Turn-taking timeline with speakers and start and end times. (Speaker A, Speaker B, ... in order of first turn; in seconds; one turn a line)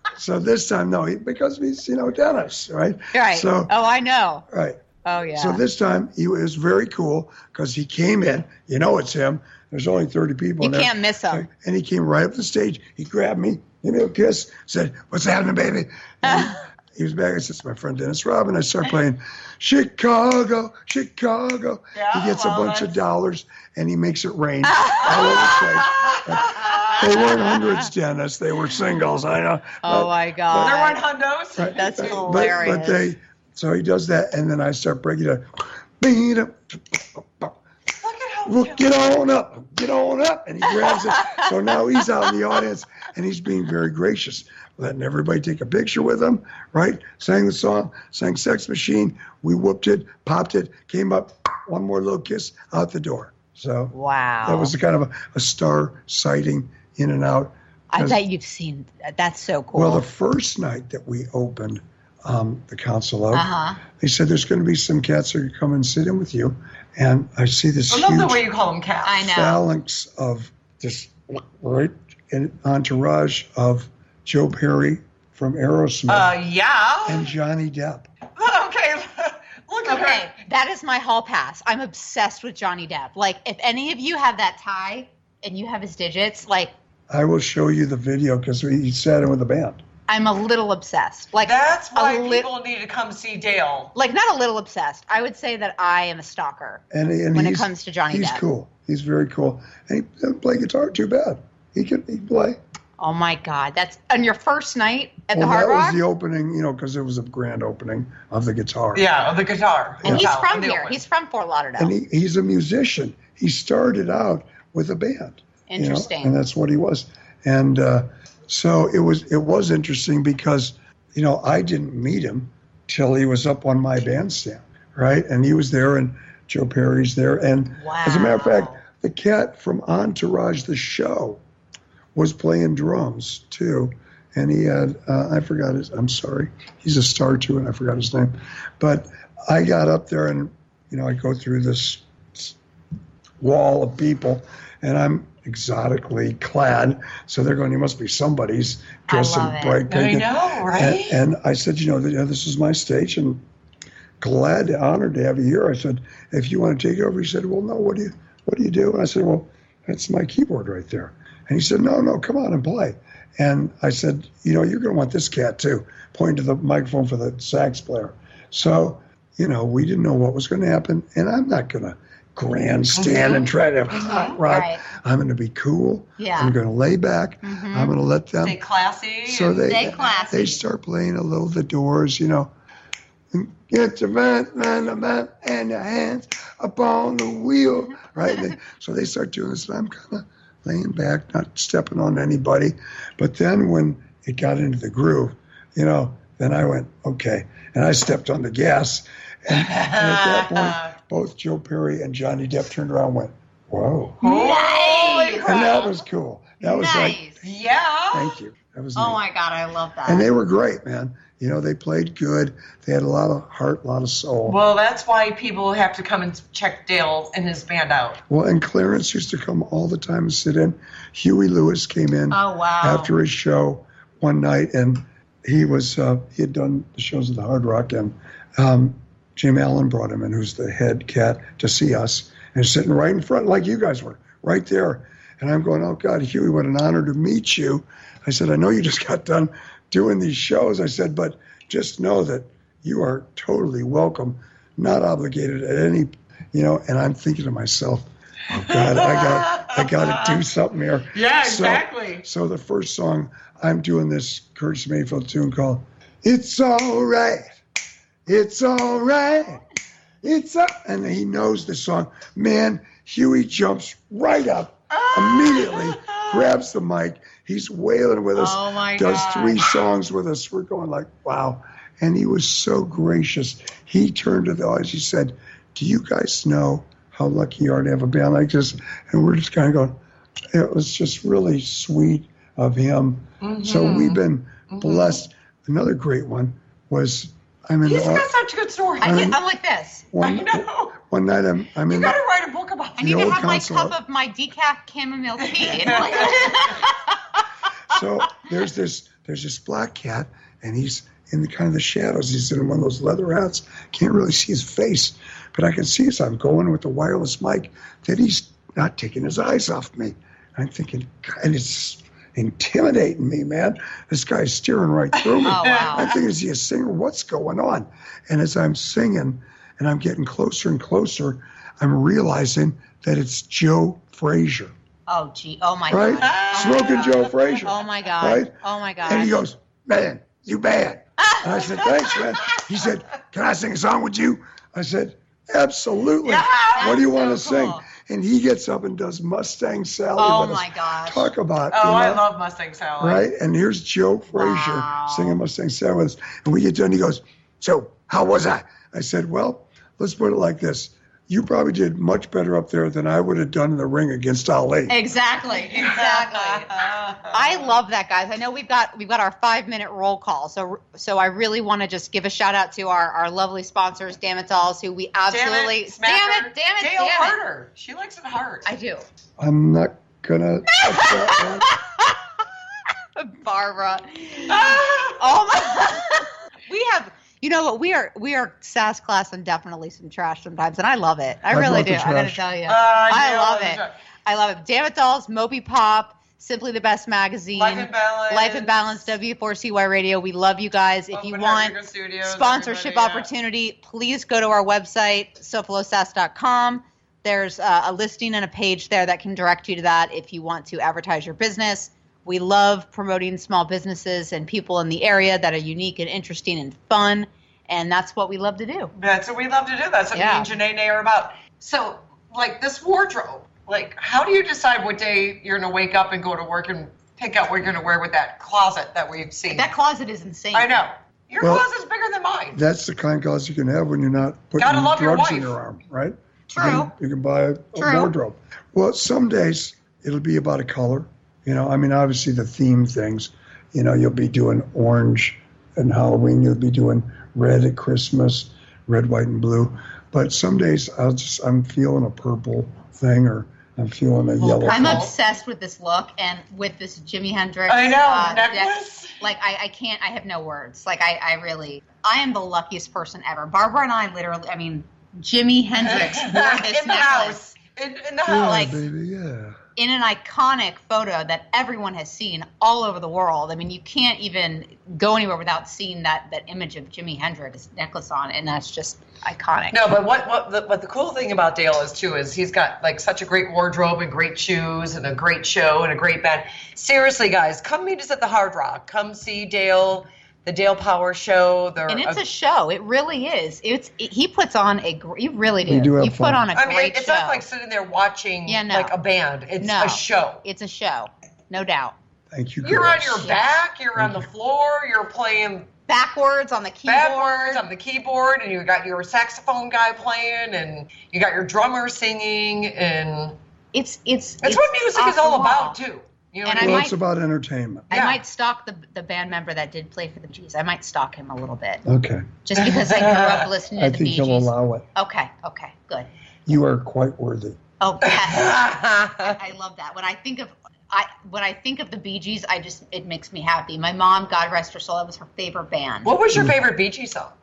Speaker A: 0.1-3.8
Speaker B: 3.1-4.4
Speaker A: 4.5-4.8
Speaker B: 5.0-5.6
Speaker A: 5.3-30.7
Speaker B: 10.6-11.5
Speaker B: 16.2-16.6
Speaker C: 21.9-23.0
Speaker B: 24.7-25.2
Speaker C: 25.0-27.4
Speaker B: 29.8-31.0
Speaker C: 30.5-32.8
Speaker A: 31.6-37.5
Speaker B: 31.7-33.0
Speaker C: 38.0-39.0
Speaker A: 38.5-58.2
Speaker B: 53.9-54.7
Speaker B: 57.9-60.0
Speaker A: 59.7-68.4
Speaker B: 63.3-63.8
Speaker C: 67.9-69.3
Speaker B: 69.0-69.6
Speaker A: 69.2-76.4
Speaker C: 76.1-77.3
Speaker A: 77.0-78.1
Speaker C: 78.4-80.3
Speaker B: 79.8-86.7
Speaker A: 87.1-89.8
Speaker B: 90.1-92.5
Speaker C: 91.4-93.9
Speaker B: 93.9-96.8
Speaker A: 96.9-102.6
Speaker B: 97.3-98.4
Speaker B: 103.0-106.0
Speaker A: 105.3-109.1
Speaker C: 108.9-111.0
Speaker A: 110.0-110.3
Speaker B: 110.0-111.9
Speaker A: 111.8-131.4
Speaker B: 115.7-116.4
Speaker B: 127.8-128.8
Speaker A: 132.1-142.6
Speaker A: 143.4-153.4
Speaker B: 149.1-149.8
Speaker C: 149.9-151.2
Speaker A: 154.2-178.6
Speaker C: 172.9-174.3
Speaker B: 174.0-174.8
Speaker B: 176.2-176.5
Speaker B: 177.4-177.9
Speaker C: 178.4-180.2
Speaker A: 179.2-182.5
Speaker B: 179.6-180.6
Speaker A: 183.3-204.2
Speaker C: 199.5-200.8
Speaker B: 204.2-205.9
Speaker C: 204.2-205.9
Speaker A: 205.4-207.2
Speaker B: 206.6-207.4
Speaker C: 207.4-208.3
Speaker A: 208.1-209.2
Speaker B: 208.9-210.3
Speaker A: 210.0-214.6
Speaker C: 214.4-218.2
Speaker A: 218.3-257.5
Speaker B: 222.3-223.1
Speaker C: 248.5-250.4
Speaker C: 251.1-252.2
Speaker A: 258.2-259.6
Speaker A: 260.2-280.0
Speaker C: 264.9-266.3
Speaker B: 268.3-269.7
Speaker A: 280.5-288.3
Speaker C: 283.4-285.2
Speaker C: 287.8-289.3
Speaker B: 289.0-290.1
Speaker A: 289.0-289.4
Speaker A: 290.1-292.2
Speaker C: 290.2-290.9
Speaker C: 291.9-293.3
Speaker A: 293.0-293.9
Speaker B: 293.0-297.4
Speaker C: 295.4-296.7
Speaker A: 297.9-324.7
Speaker C: 315.2-316.1
Speaker B: 315.4-316.2
Speaker B: 325.1-329.4
Speaker A: 325.9-342.2
Speaker C: 325.9-327.5
Speaker B: 331.3-331.7
Speaker C: 336.2-337.1
Speaker B: 336.8-337.8
Speaker B: 340.2-341.3
Speaker C: 341.7-343.2
Speaker A: 343.0-355.0
Speaker B: 344.3-345.4
Speaker B: 354.9-367.4
Speaker C: 355.5-357.8
Speaker C: 365.3-368.7
Speaker B: 368.6-369.0
Speaker A: 369.4-371.7
Speaker B: 370.9-372.1
Speaker B: 373.1-408.9
Speaker C: 374.5-375.4
Speaker A: 381.5-382.4
Speaker C: 382.6-383.9
Speaker C: 387.5-389.1
Speaker C: 391.1-393.3
Speaker C: 408.9-419.7
Speaker B: 410.1-410.5
Speaker B: 419.5-420.8
Speaker C: 420.5-422.6
Speaker A: 421.4-421.7
Speaker A: 422.5-445.1
Speaker C: 424.6-425.6
Speaker B: 426.5-426.9
Speaker B: 427.8-428.1
Speaker C: 444.4-445.1
Speaker B: 444.6-457.4
Speaker C: 447.7-449.2
Speaker C: 455.8-458.7
Speaker A: 458.2-459.6
Speaker B: 458.3-458.8
Speaker B: 459.8-469.9
Speaker C: 469.7-482.2
Speaker B: 481.9-487.4
Speaker A: 485.6-486.4
Speaker C: 486.5-490.4
Speaker B: 488.5-488.9
Speaker B: 489.6-491.9
Speaker A: 492.3-493.3
Speaker C: 492.6-495.7
Speaker B: 493.2-493.5
Speaker A: 494.0-494.3
Speaker B: 495.9-497.6
Speaker C: 496.9-503.4
Speaker B: 503.7-505.8
Speaker C: 504.4-506.9
Speaker B: 506.4-506.9
Speaker A: 506.6-507.9
Speaker B: 507.9-511.8
Speaker C: 507.9-508.2
Speaker A: 511.9-512.3
Speaker B: 512.5-516.1
Speaker C: 512.6-513.4
Speaker A: 513.8-514.9
Speaker A: 516.5-517.6
Speaker B: 517.8-526.2
Speaker C: 518.3-519.3
Speaker C: 526.0-527.3
Speaker A: 526.3-526.6